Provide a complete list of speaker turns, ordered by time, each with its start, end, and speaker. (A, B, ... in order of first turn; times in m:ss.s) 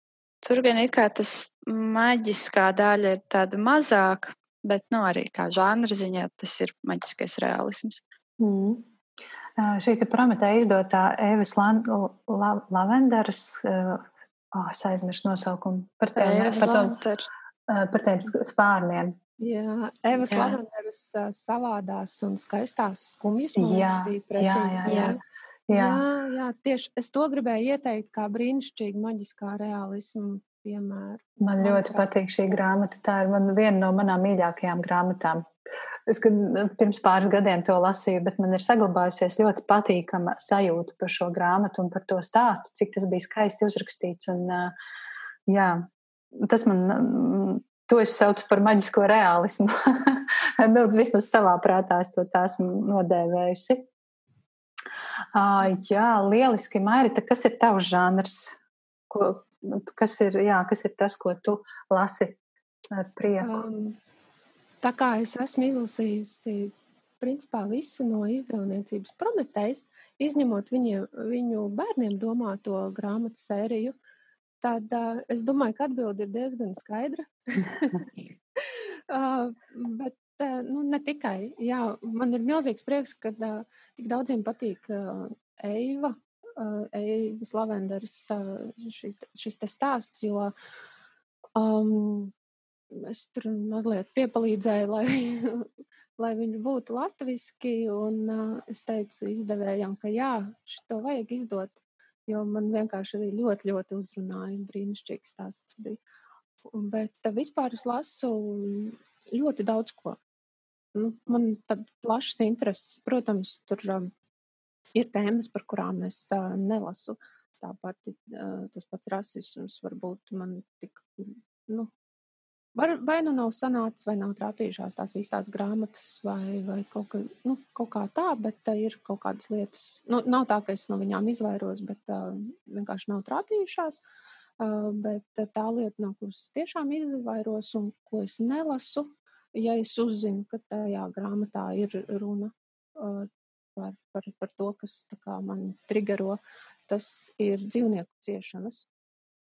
0:00.4-0:08.0 A
0:08.4-0:08.8 B
0:09.6-0:17.0 B
0:16.2-0:17.3 A
0:17.7-0:19.2 B
0:19.4-0:32.1 C
0:20.3-0:20.6 A
0:23.6-0:26.0 B
0:24.8-0:25.2 A
0:31.4-0:35.5 B
0:36.1-0:44.7 B
0:45.5-0:45.9 B
0:46.4-0:53.9 B
0:55.3-0:58.6 B
0:59.1-1:02.4 B
1:02.9-1:03.7 B
1:03.4-1:04.0 C
1:04.8-1:14.0 C
1:14.6-1:30.5 C
1:31.5-1:32.3 C
1:32.9-1:46.0 C
1:46.7-1:50.2 C
1:50.9-1:54.1 C
1:54.9-2:01.9 C
2:02.7-2:14.0 C
2:14.6-2:28.9 C